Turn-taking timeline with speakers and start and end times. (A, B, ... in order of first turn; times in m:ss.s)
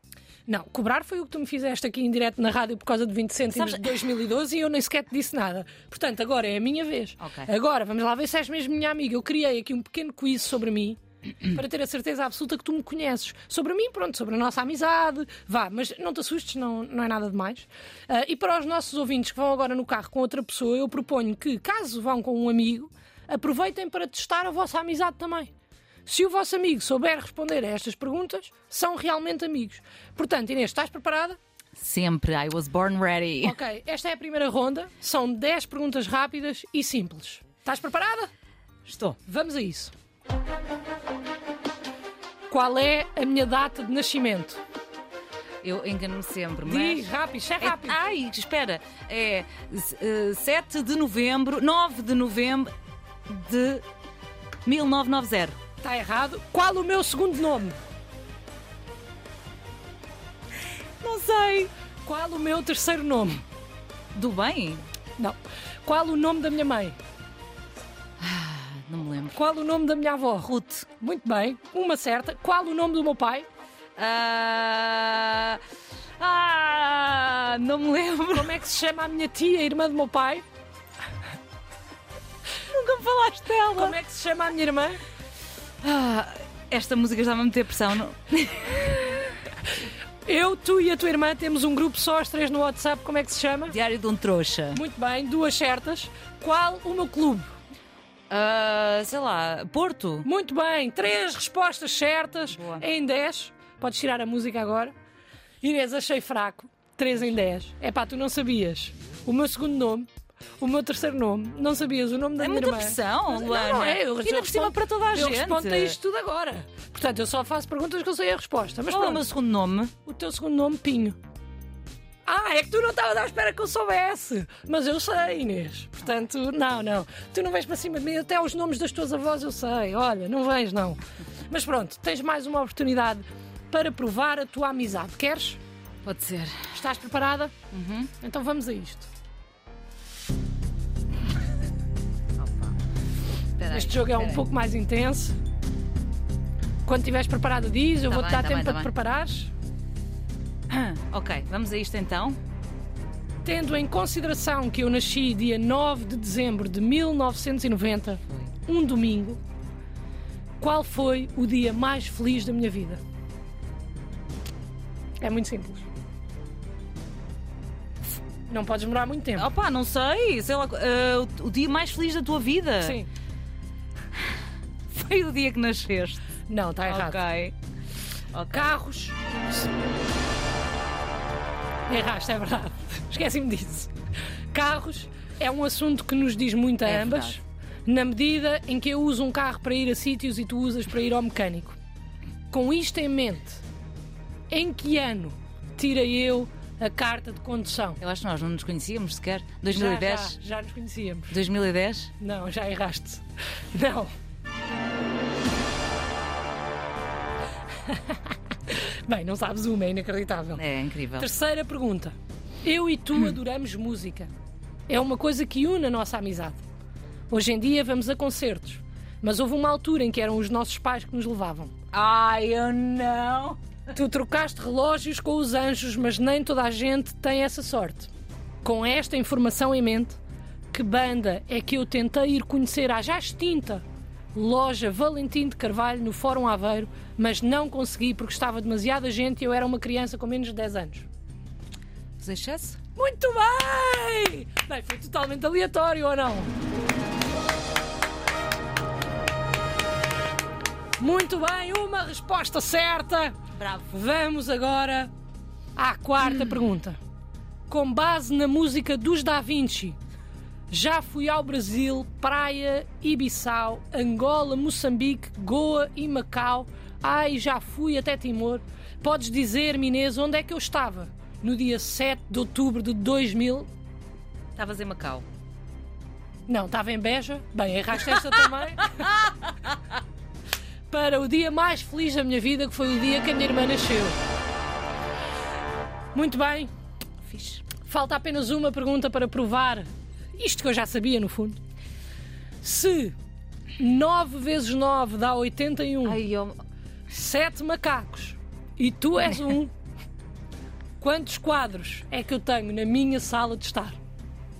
0:00.5-0:25.5 A
0:03.5-0:04.1 B
0:07.2-0:07.5 B
0:26.1-0:31.4 A
0:31.8-0:33.6 B
0:33.4-0:38.3 A
0:38.8-0:39.2 B
0:39.2-0:39.9 A
0:42.5-0:44.6 A
0:45.6-0:47.0 B
0:46.6-0:48.0 A
0:47.6-0:52.7 B
0:53.3-0:53.8 B
0:54.6-0:55.6 B
0:55.8-0:57.8 A
1:01.0-1:01.7 B
1:02.0-1:03.4 A
1:04.1-1:04.8 B
1:05.2-1:07.0 A
1:08.2-1:09.4 B
1:09.3-1:13.5 A
1:10.4-1:10.9 B
1:14.0-1:15.6 B
1:16.2-1:18.6 B
1:18.3-1:20.4 A
1:22.7-1:24.0 B
1:23.7-1:25.0 A
1:25.8-1:29.3 B
1:30.2-1:33.8 A
1:33.7-1:34.8 B
1:34.7-1:37.5 A
1:38.3-1:40.3 B
1:40.2-1:45.0 A
1:42.5-1:42.8 B
1:45.6-1:50.1 A
1:50.6-1:59.2 A
1:52.4-1:56.0 B
1:58.9-1:59.9 B
2:00.1-2:01.2 A
2:02.3-2:15.6 A
2:16.0-2:16.8 B
2:16.7-2:17.5 A
2:17.7-2:18.1 B
2:18.2-2:19.1 A
2:22.4-2:22.8 B
2:23.6-2:24.4 B
2:23.7-2:25.4 A
2:26.8-2:29.5 A
2:28.1-2:28.9 B
2:30.7-2:32.4 B
2:33.4-2:39.4 A
2:40.6-2:43.0 A
2:45.2-2:45.9 A
2:48.5-2:49.5 A
2:49.4-2:53.0 B
2:52.8-2:53.1 A
2:54.9-2:56.2 B
2:56.5-2:57.2 A
2:56.9-2:57.5 B
2:58.3-2:58.7 B
2:58.5-2:59.3 A
3:01.9-3:03.9 A
3:04.5-3:11.8 A
3:06.8-3:07.4 B
3:12.5-3:13.6 A
3:14.5-3:18.0 A
3:18.0-3:20.4 B
3:19.7-3:21.4 A
3:21.3-3:22.1 B
3:22.2-3:24.1 A
3:27.8-3:30.6 A
3:30.6-3:31.3 B
3:31.2-3:34.3 A
3:34.9-3:36.6 A
3:37.3-3:41.8 A
3:41.9-3:43.6 B
3:43.9-3:48.1 A
3:48.6-3:50.2 A
3:50.7-4:01.1 A
4:02.2-4:02.8 B
4:03.0-4:06.5 A
4:11.0-4:13.4 A
4:13.5-4:13.9 B
4:13.9-4:15.1 A
4:15.8-4:17.0 A
4:17.7-4:20.0 A
4:20.7-4:33.7 A
4:34.6-4:35.2 B
4:36.5-4:39.1 A
4:39.0-4:39.7 B
4:40.9-4:44.2 A
4:46.1-4:46.7 A
4:47.2-4:47.6 B
4:47.8-4:51.6 A
4:52.6-4:53.1 A
4:53.8-4:56.2 A
4:56.0-4:56.5 B
4:57.1-4:59.7 A
5:01.0-5:04.0 A